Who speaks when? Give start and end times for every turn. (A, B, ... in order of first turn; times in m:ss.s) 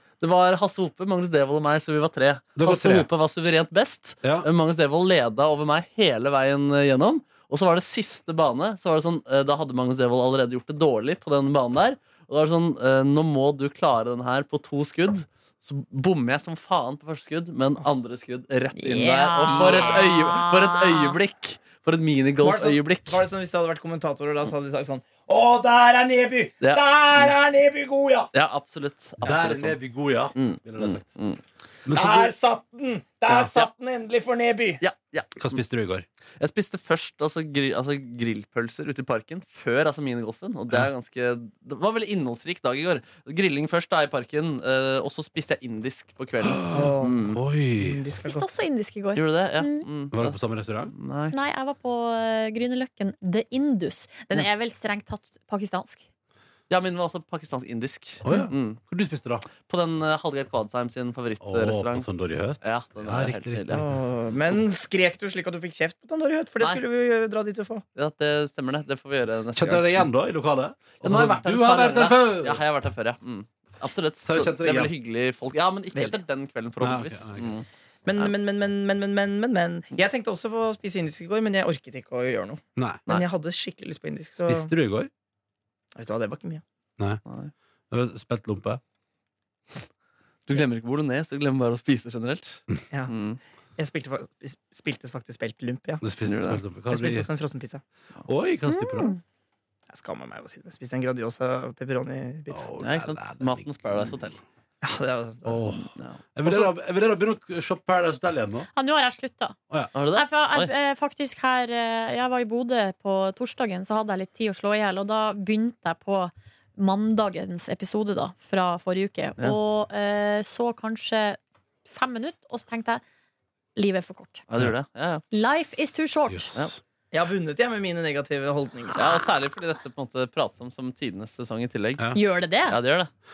0:00.2-0:23.2 A
0:02.6-0:03.1 B
0:04.2-0:04.5 B
0:18.8-0:21.1 C
0:19.5-0:20.2 D
0:22.4-0:28.3 D
0:26.6-0:27.4 A
0:28.3-0:29.8 A
0:29.2-0:31.0 B
0:30.4-0:31.4 A
0:31.9-0:32.4 B
0:31.9-0:34.8 D
0:34.8-0:35.6 A
0:35.4-0:36.1 B
0:36.4-0:47.4 A
0:46.5-0:48.0 B
0:46.7-0:47.2 D
0:47.8-0:48.5 D
0:48.2-0:49.9 C
0:49.2-0:50.4 A
0:50.1-0:50.9 B
0:50.9-0:51.4 A
0:51.3-0:56.0 C
0:56.7-0:58.8 A
0:58.2-0:59.5 B
0:59.6-1:02.1 A
1:01.4-1:03.9 B
1:02.6-1:03.8 A
1:03.7-1:07.8 D
1:08.0-1:10.1 A
1:09.6-1:12.6 B
1:11.0-1:17.7 A
1:14.2-1:14.9 B
1:15.9-1:16.2 D
1:16.8-1:17.6 B
1:18.0-1:24.7 D
1:22.8-1:23.0 B
1:24.4-1:25.1 B
1:26.0-1:26.6 D
1:27.0-1:27.2 B
1:27.3-1:27.5 A
1:27.9-1:28.8 B
1:30.5-1:33.4 A
1:33.8-1:36.0 D
1:36.0-1:37.3 B
1:36.2-1:36.6 A
1:36.9-1:37.8 D
1:38.2-1:39.2 B
1:38.7-1:39.2 C
1:39.9-1:42.7 D
1:42.5-1:44.2 B
1:42.8-1:44.4 A
1:44.8-1:45.7 D
1:45.4-1:48.7 B
1:46.4-1:46.7 D
1:48.7-1:49.6 C
1:50.0-1:50.7 A
1:50.1-2:03.0 C
2:03.8-2:04.4 C
2:04.5-2:05.8 A
2:05.3-2:06.5 C
2:06.3-2:06.8 B
2:07.1-2:09.2 D
2:09.0-2:13.1 A
2:12.1-2:12.8 C